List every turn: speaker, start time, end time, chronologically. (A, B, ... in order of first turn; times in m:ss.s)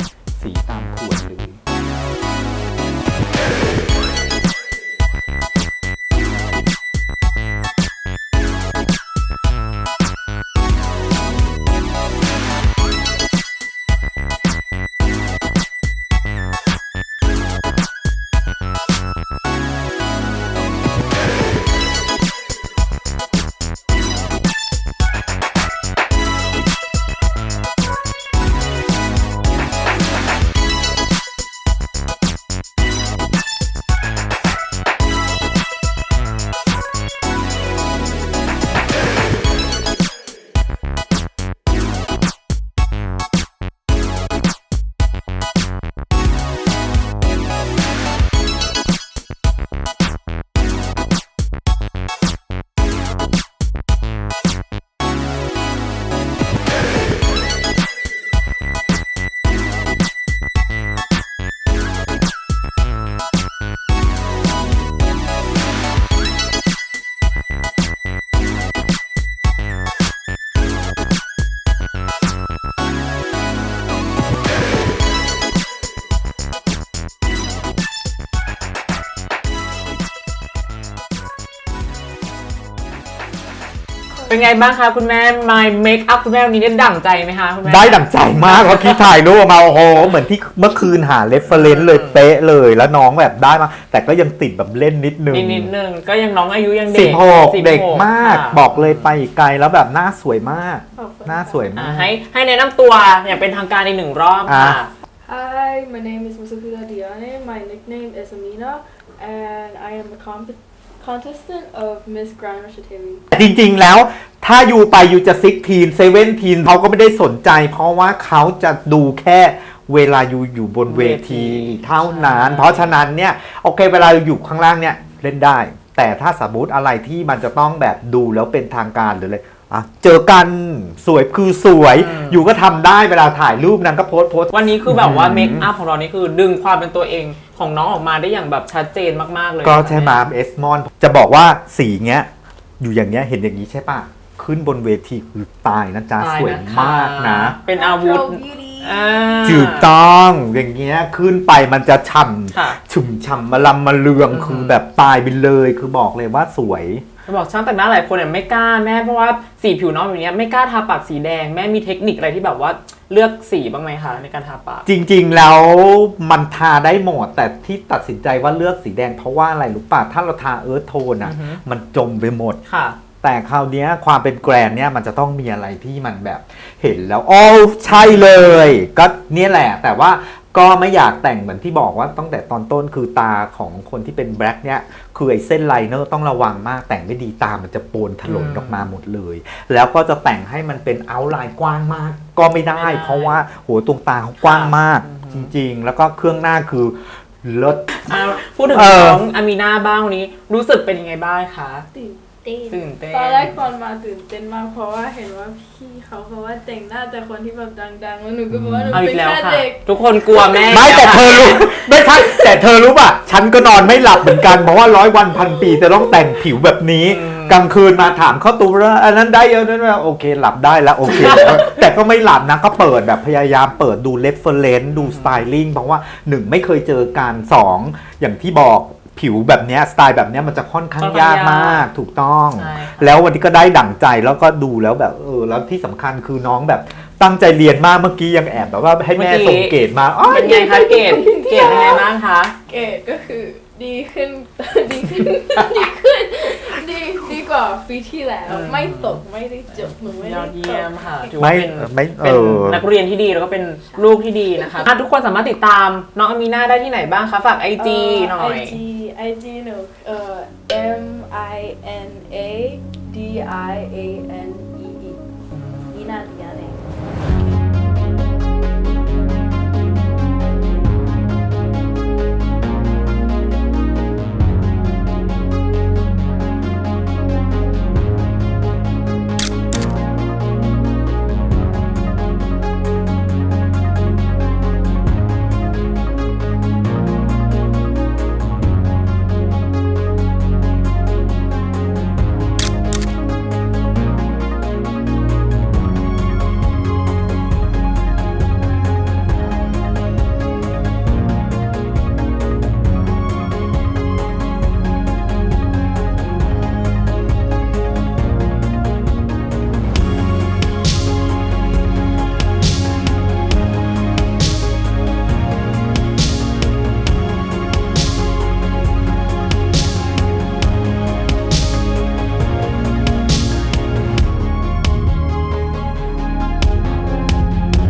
0:00.4-0:01.6 A
1:24.2-1:29.0 B
1:27.6-1:35.7 A
1:31.6-1:32.1 B
1:35.3-1:38.9 B
1:36.9-1:42.2 A
1:41.0-1:41.7 C
1:41.8-1:44.9 B
1:44.5-1:44.8 A
1:45.2-1:53.2 C
1:53.3-2:15.7 A
2:00.9-2:02.9 B
2:11.9-2:12.4 B
2:14.5-2:20.2 B
2:19.6-2:27.6 A
2:26.2-2:29.9 B
2:27.7-2:29.7 C
2:29.4-2:37.1 A
2:34.3-2:34.8 B
2:37.3-2:44.9 B
2:44.9-2:52.6 A
2:51.3-2:51.6 B
2:52.7-2:53.0 B
2:53.2-3:19.3 A
3:08.2-3:08.9 B
3:12.7-3:13.4 B
3:14.4-3:15.5 B
3:18.1-3:21.9 B
3:21.9-3:30.8 C
3:22.7-3:23.6 B
3:28.5-3:29.0 A
3:28.9-3:31.9 B
3:30.7-4:01.0 A
3:35.7-3:36.0 C
3:37.1-3:37.6 B
3:41.3-3:41.6 B
3:45.0-3:45.4 B
3:51.0-3:51.9 B
3:52.6-3:53.1 B
3:59.2-4:02.5 B
4:00.4-4:11.4 C
4:08.5-4:09.2 B
4:09.7-4:18.8 B
4:11.4-4:12.8 A
4:14.0-4:14.9 C
4:17.8-4:25.2 C
4:25.6-4:25.9 B
4:25.9-4:26.9 C